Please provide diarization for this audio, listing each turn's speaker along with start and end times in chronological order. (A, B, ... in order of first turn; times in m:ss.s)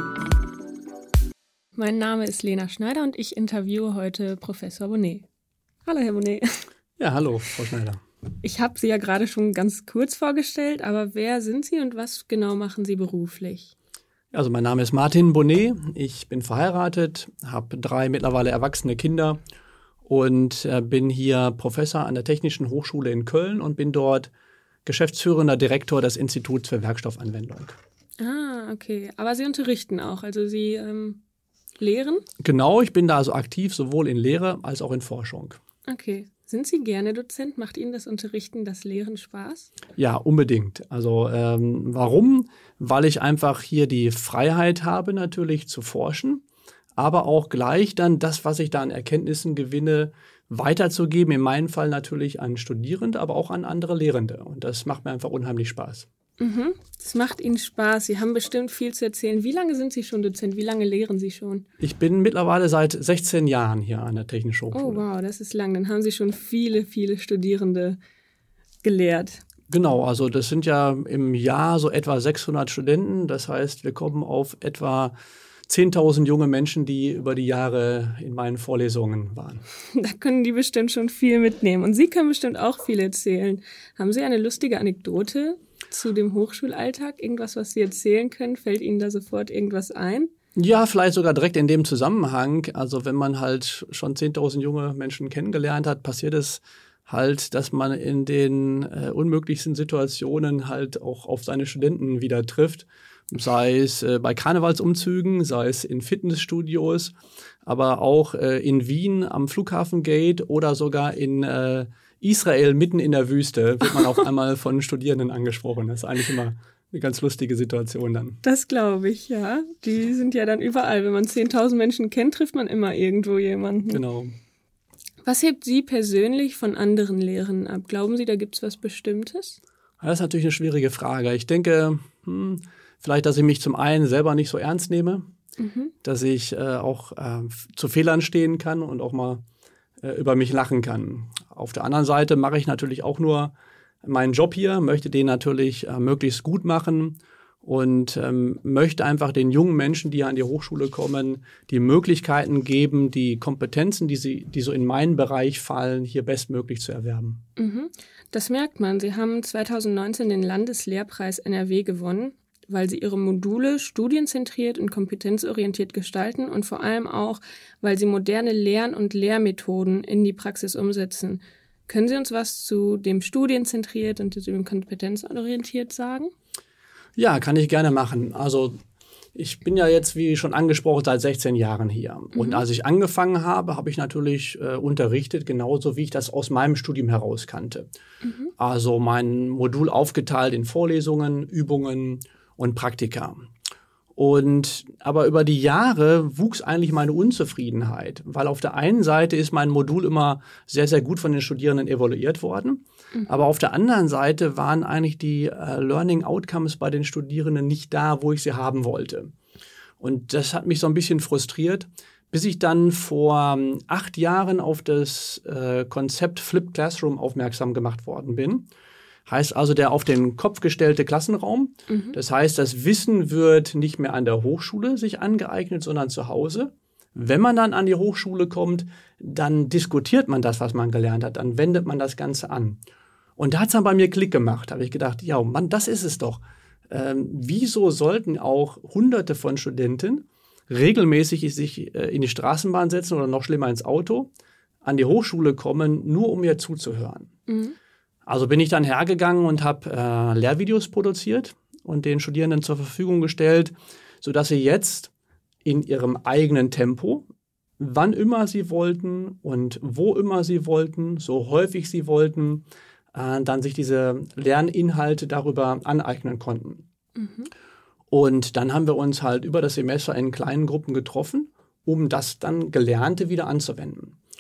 0:01.8-0:05.3 A
0:05.8-0:06.6 A
0:07.0-0:08.0 B
0:08.4-0:13.7 A
0:14.3-0:19.4 B
0:20.0-0:24.3 B
0:24.8-0:27.8 B
0:28.2-0:31.2 A
0:31.8-0:32.2 A
0:32.4-0:35.6 B
0:35.9-0:39.7 A
0:40.0-0:46.4 B
0:47.0-0:56.1 B
0:56.4-1:01.6 A
1:01.8-1:05.0 B
1:04.7-1:08.0 A
1:08.8-1:09.4 A
1:09.7-1:15.2 B
1:15.7-1:19.6 B
1:19.9-1:30.3 A
1:30.6-1:47.1 B
1:47.6-1:58.4 B
1:58.4-2:04.0 A
2:03.9-2:04.4 B
2:05.2-2:09.6 A
2:10.0-2:15.3 B
2:15.6-2:15.9 A
2:16.0-2:19.4 B
2:20.0-2:23.5 B
2:24.0-2:37.4 B
2:37.6-2:56.3 A
2:57.2-2:58.8 B
2:59.4-3:07.9 B
3:02.4-3:02.6 A
3:08.2-3:08.5 A
3:08.6-3:13.5 B
3:14.2-3:29.3 B
3:30.0-3:38.7 B
3:39.3-3:52.8 B
3:41.9-3:42.2 A
3:53.4-4:04.3 B
4:04.8-4:07.3 B
4:07.5-4:07.8 A
4:08.3-4:15.1 B
4:15.6-4:17.3 B
4:17.8-4:26.8 B
4:27.2-4:27.5 A
4:28.1-4:34.2 B